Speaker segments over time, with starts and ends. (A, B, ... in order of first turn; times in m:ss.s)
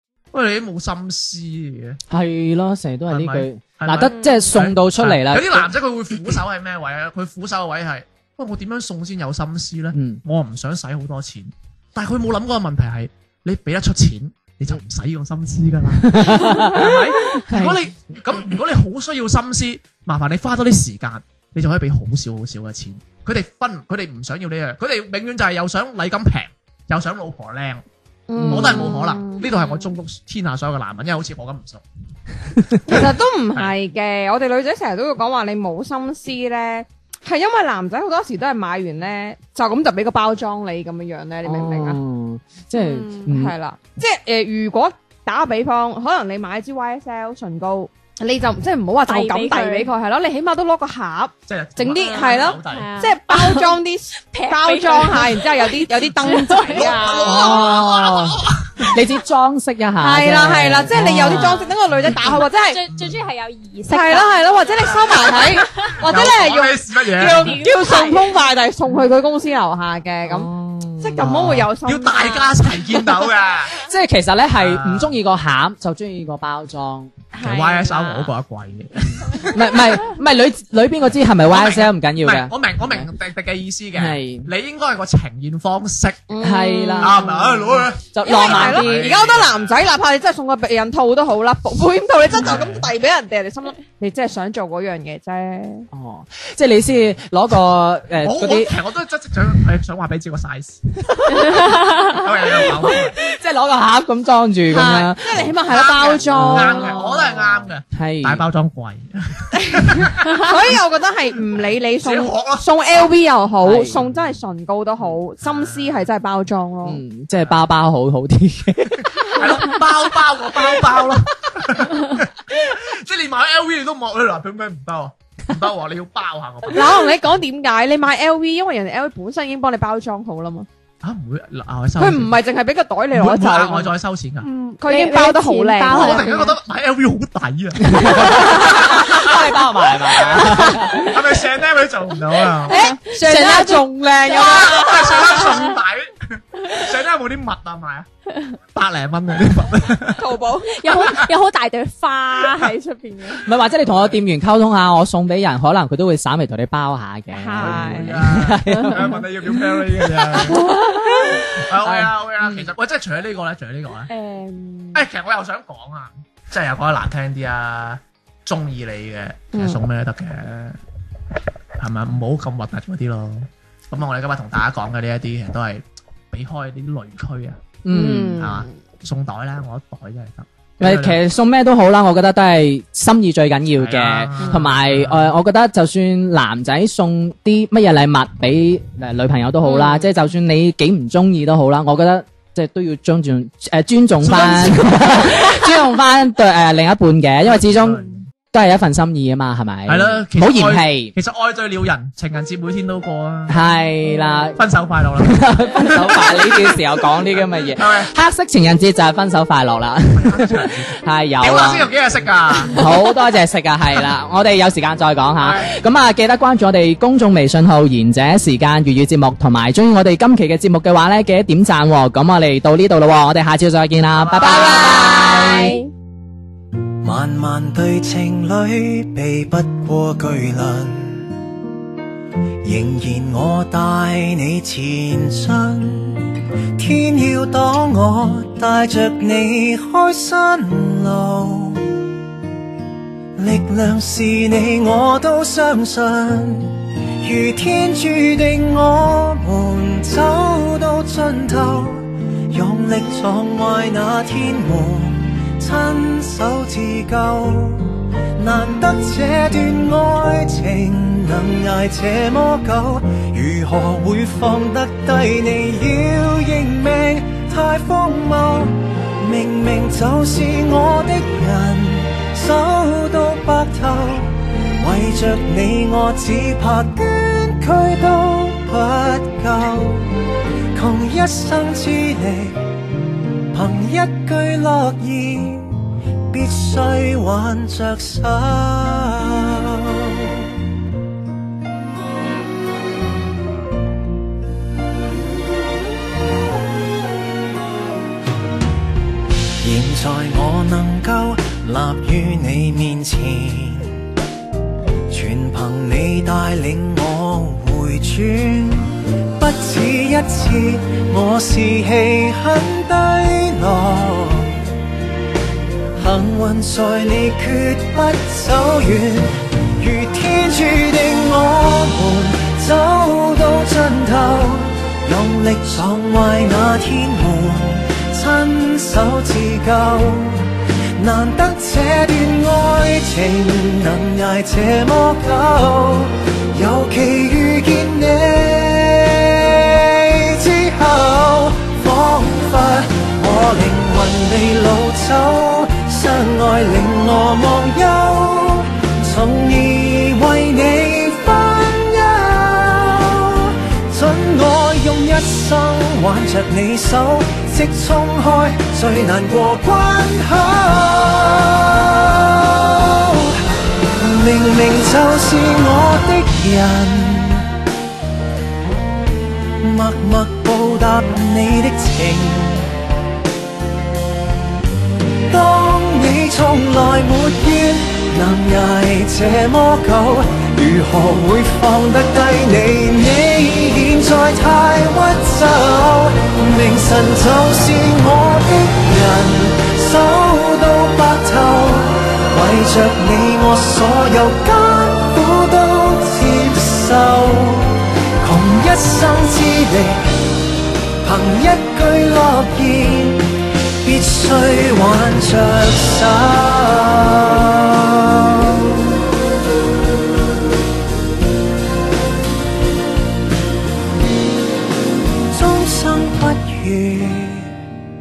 0:00.3-0:02.0 A
0:02.1-0:05.7 B
0:03.1-0:27.8 A
0:04.0-0:04.6 C
0:09.9-0:10.2 B
0:16.0-0:17.8 B
0:28.3-0:29.9 D
0:28.4-0:28.8 B
0:28.5-0:31.8 A
0:32.9-0:42.0 D
0:41.4-0:43.5 B
0:42.7-0:57.6 D
0:49.1-0:49.9 C
0:51.5-0:52.9 A
0:51.9-0:57.0 C
0:56.6-0:59.0 A
0:57.2-1:01.7 B
1:00.0-1:02.8 D
1:02.4-1:06.2 C
1:02.9-1:03.3 A
1:03.9-1:12.6 D
1:06.0-1:07.6 A
1:07.2-1:08.4 C
1:10.2-1:11.7 B
1:11.8-1:13.7 A
1:13.7-1:17.1 B
1:14.5-1:15.2 A
1:17.3-1:18.3 D
1:17.4-1:19.6 A
1:19.5-1:23.1 B
1:21.4-1:26.3 A
1:24.0-1:24.5 B
1:26.3-1:35.9 D
1:26.4-1:29.0 B
1:27.0-1:29.8 A
1:32.4-1:32.9 A
1:35.9-1:38.7 B
1:38.2-1:40.8 A
1:41.1-1:45.5 B
1:41.9-1:43.2 A
1:44.7-1:47.1 D
1:45.4-1:50.4 A
1:46.2-1:47.1 B
1:47.9-1:48.5 B
1:49.5-1:57.0 D
1:51.6-1:52.7 A
1:53.6-1:54.0 B
1:55.5-1:56.1 A
1:56.8-1:59.8 B
1:59.2-2:07.1 A
2:06.7-2:10.7 D
2:11.0-2:12.3 A
2:12.0-2:13.9 D
2:13.1-2:14.5 A
2:14.4-2:16.3 C
2:14.8-2:16.5 D
2:15.9-2:19.4 A
2:17.8-2:21.2 B
2:18.4-2:19.4 D
2:20.2-2:22.8 A
2:20.4-2:21.0 D
2:22.6-2:25.6 D
2:22.7-2:25.8 C
2:23.2-2:23.9 B
2:24.3-2:28.1 A
2:28.7-2:30.4 A
2:30.2-2:31.0 D
2:30.7-2:33.4 C
2:30.9-2:31.3 A
2:32.4-2:32.7 A
2:33.4-2:39.2 B
2:33.8-2:34.2 A
2:37.3-2:38.2 D
2:37.6-2:40.6 A
2:40.2-2:42.7 B
2:41.6-2:44.1 A
2:44.1-2:45.0 D
2:44.9-2:50.8 A
2:49.5-2:49.8 D
2:51.8-2:57.8 A
2:57.8-2:58.5 B
2:57.9-2:58.7 D
2:58.4-3:01.2 A
3:00.8-3:21.1 B
3:03.8-3:05.3 A
3:04.4-3:04.6 D
3:09.6-3:10.1 D
3:14.2-3:15.0 A
3:17.4-3:18.3 A
3:19.9-3:23.6 A
3:23.5-3:24.6 B
3:24.6-3:28.1 A
3:25.2-3:31.9 B
3:30.1-3:32.9 A
3:32.6-3:45.8 B
3:35.4-3:35.7 A
3:44.4-3:45.8 D
3:44.6-3:45.9 C
3:47.0-3:51.3 E
3:52.6-4:02.0 E
4:03.4-4:42.7 E
4:43.5-4:50.4 E
4:59.6-5:04.0 E
5:05.1-5:14.6 E
5:16.0-6:03.4 E
6:04.0-6:07.5 E
6:09.6-6:12.7 E
6:15.3-6:40.2 E
6:41.0-6:48.8 E
6:55.3-6:57.5 E